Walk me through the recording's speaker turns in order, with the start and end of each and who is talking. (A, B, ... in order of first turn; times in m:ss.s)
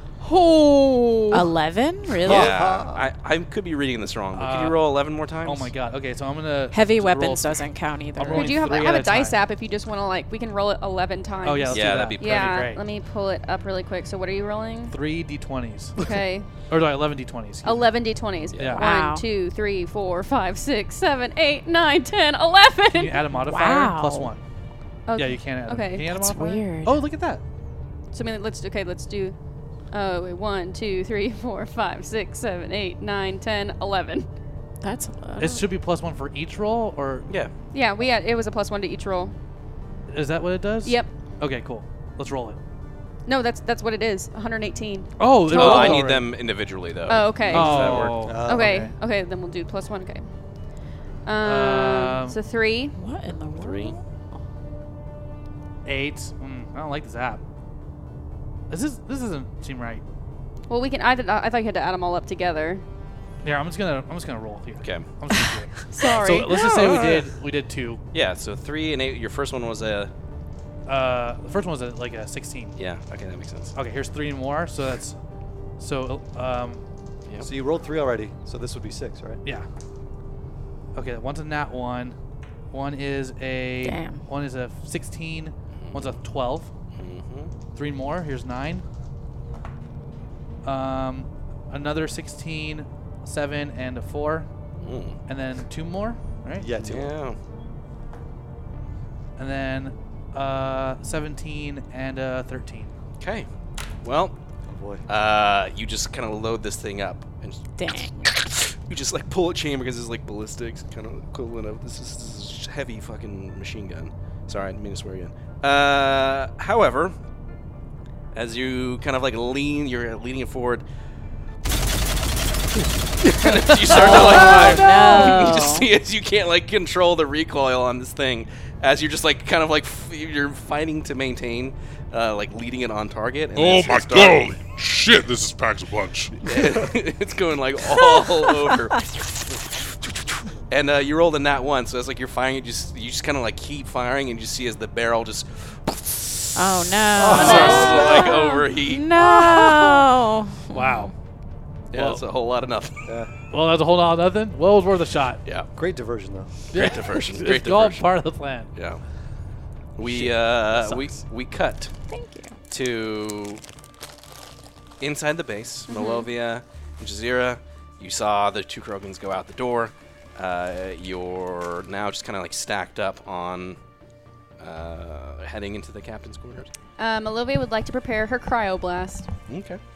0:00.2-0:01.4 A
0:01.3-0:02.6 B
0:02.2-0:03.1 C
0:02.2-0:05.7 D
0:04.3-0:04.8 E
0:05.4-0:09.4 E
0:06.7-0:08.6 B
0:08.3-0:14.9 A
0:11.4-0:12.8 E
0:11.7-0:12.7 D
0:14.9-0:16.0 E
0:16.0-0:16.5 A
0:16.6-0:17.9 E
0:17.6-0:23.2 A
0:18.5-0:18.8 D
0:18.6-0:18.9 E
0:18.8-0:19.2 B
0:22.9-0:24.4 E
0:23.4-0:24.3 B
0:25.1-0:26.1 A
0:25.1-0:27.4 E
0:26.1-0:27.0 B
0:28.1-0:29.4 A
0:29.9-0:34.2 A
0:34.8-0:35.6 B
0:35.4-0:37.3 E
0:37.3-0:37.5 D
0:37.7-0:39.3 A
0:40.1-0:42.6 E
0:40.8-0:41.1 A
0:43.3-0:46.0 A
0:45.2-0:46.3 E
0:45.5-0:48.2 D
0:47.1-0:50.3 A
0:47.5-0:48.9 E
0:47.6-0:48.9 C
0:51.2-0:52.9 A
0:51.4-0:52.4 E
0:52.9-0:54.0 B
0:53.6-0:54.0 D
0:55.8-0:57.4 E
0:58.7-1:00.0 E
1:00.7-1:02.8 A
1:03.4-1:08.0 E
1:04.8-1:05.0 D
1:05.9-1:06.5 A
1:06.4-1:07.3 D
1:08.1-1:10.1 D
1:10.9-1:12.8 E
1:12.8-1:13.7 D
1:13.7-1:15.2 E
1:15.8-1:16.8 E
1:17.4-1:19.4 C
1:20.9-1:22.2 E
1:22.7-1:26.7 E
1:23.8-1:24.2 B
1:25.8-1:26.2 D
1:26.9-1:27.5 D
1:27.7-1:28.8 E
1:30.6-1:34.5 E
1:34.8-1:35.2 D
1:35.2-1:36.7 E
1:36.6-1:37.2 C
1:36.8-1:37.4 D
1:39.4-1:42.9 E
1:43.2-1:43.5 D
1:44.0-1:44.4 D
1:44.7-1:45.0 C
1:45.1-1:57.1 D
1:47.8-1:48.3 B
1:58.3-2:00.8 D
2:03.2-2:14.6 D
2:03.4-2:05.5 E
2:03.9-2:05.9 B
2:13.5-2:16.6 F
2:16.4-2:19.1 D
2:18.0-2:18.3 B
2:20.7-2:26.6 D
2:26.5-2:31.1 B
2:27.1-2:28.3 C
2:27.2-2:29.1 D
2:30.7-2:31.1 E
2:31.9-2:32.2 E
2:31.9-2:33.1 D
2:33.0-2:33.3 C
2:33.5-2:35.4 E
2:35.7-2:36.7 C
2:36.7-2:38.2 D
2:36.7-2:38.7 E
2:38.7-2:39.0 D
2:40.0-2:41.9 D
2:42.1-2:42.6 B
2:42.7-2:43.6 D
2:45.0-2:53.8 D
2:45.9-2:46.2 A
2:54.6-2:56.7 D
2:57.0-2:59.3 A
2:59.5-2:59.8 D